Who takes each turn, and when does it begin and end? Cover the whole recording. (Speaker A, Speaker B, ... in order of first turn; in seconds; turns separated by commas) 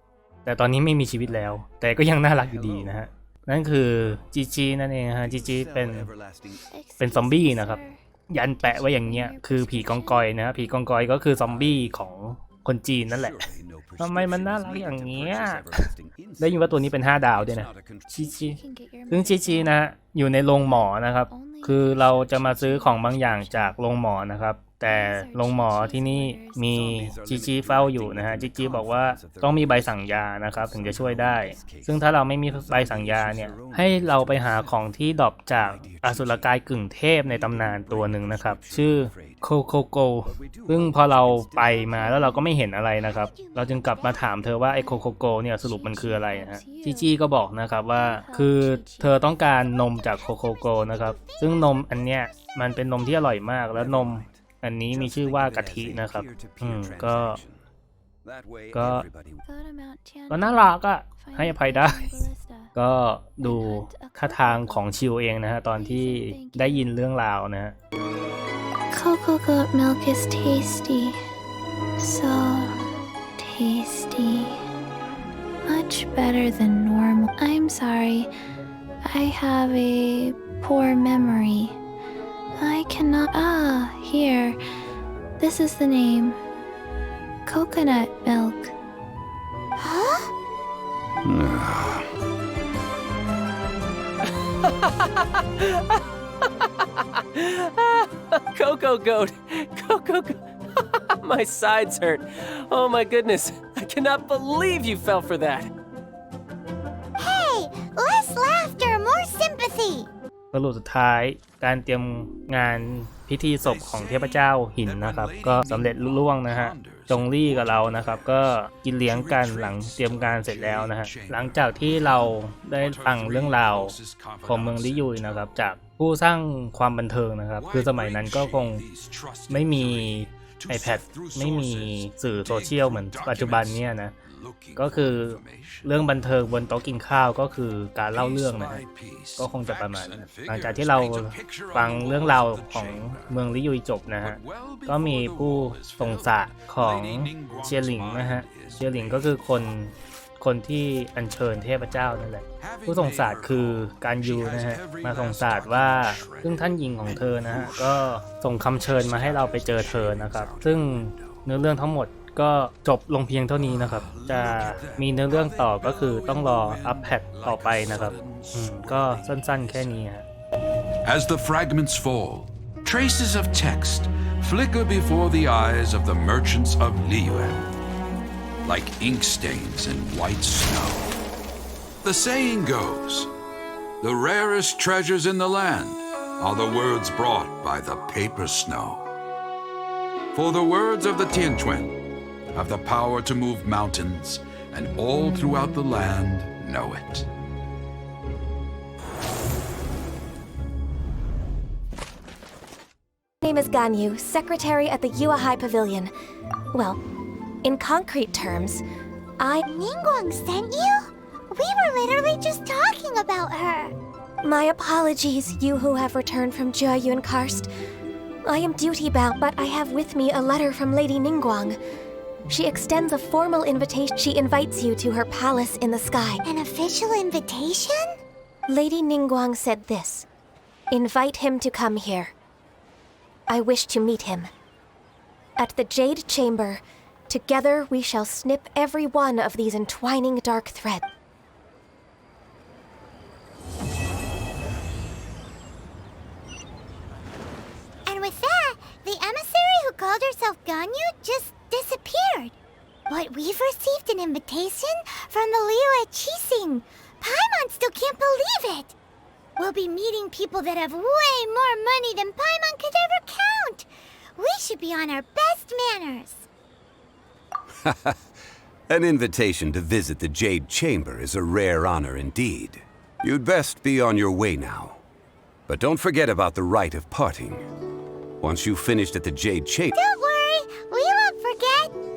Speaker A: 0.4-6.1, Speaker B: 1.2-1.6, Speaker B: 2.4-3.1, Speaker B: 5.2-6.6, Speaker C: 6.7-10.7, Speaker A: 7.0-57.4, Speaker B: 11.2-12.0, Speaker B: 13.0-18.6, Speaker C: 18.1-19.8, Speaker C: 20.6-23.9, Speaker B: 22.0-22.4, Speaker C: 24.8-27.0, Speaker B: 26.6-36.6, Speaker B: 37.2-39.5, Speaker B: 40.2-42.4, Speaker C: 41.8-42.5, Speaker D: 43.1-43.9, Speaker C: 43.9-50.3, Speaker B: 46.0-46.3, Speaker D: 50.2-52.5, Speaker B: 53.7-57.6, Speaker B: 58.2-59.5, Speaker A: 58.7-59.0, Speaker C: 59.4-62.7, Speaker A: 60.3-62.2, Speaker A: 62.7-67.7, Speaker C: 63.4-67.0, Speaker C: 68.9-71.2, Speaker C: 72.0-72.8, Speaker C: 73.4-74.6, Speaker C: 75.7-78.3, Speaker C: 79.0-81.8, Speaker C: 82.6-84.6, Speaker C: 85.4-86.4, Speaker C: 87.5-88.7, Speaker D: 89.8-90.3, Speaker B: 91.2-92.1, Speaker E: 94.6-95.1, Speaker E: 95.6-96.0, Speaker E: 97.2-105.7, Speaker D: 107.2-110.1, Speaker A: 110.5-128.8, Speaker F: 113.6-125.5, Speaker F: 127.6-136.9, Speaker A: 129.5-134.1, Speaker A: 134.8-138.8, Speaker F: 138.1-143.4, Speaker A: 139.3-170.2, Speaker F: 144.2-149.8, Speaker F: 152.6-161.4, Speaker F: 163.5-170.1, Speaker F: 171.0-177.7, Speaker F: 178.6-181.1, Speaker F: 182.0-183.3, Speaker F: 184.0-189.1, Speaker F: 190.3-192.0, Speaker F: 192.5-197.3, Speaker G: 203.4-206.1, Speaker G: 206.7-207.0, Speaker G: 207.6-208.8, Speaker G: 209.4-209.7, Speaker D: 209.7-213.9, Speaker G: 214.4-217.7, Speaker G: 218.4-221.8, Speaker G: 222.5-226.4, Speaker D: 226.4-228.2, Speaker G: 228.7-230.2, Speaker G: 230.9-232.3, Speaker G: 233.5-234.5, Speaker G: 235.6-241.1, Speaker D: 248.1-252.5, Speaker D: 253.1-258.9, Speaker D: 259.6-266.5, Speaker B: 267.8-268.2, Speaker B: 268.9-275.0, Speaker B: 275.7-277.6, Speaker B: 278.4-279.9, Speaker D: 279.9-281.9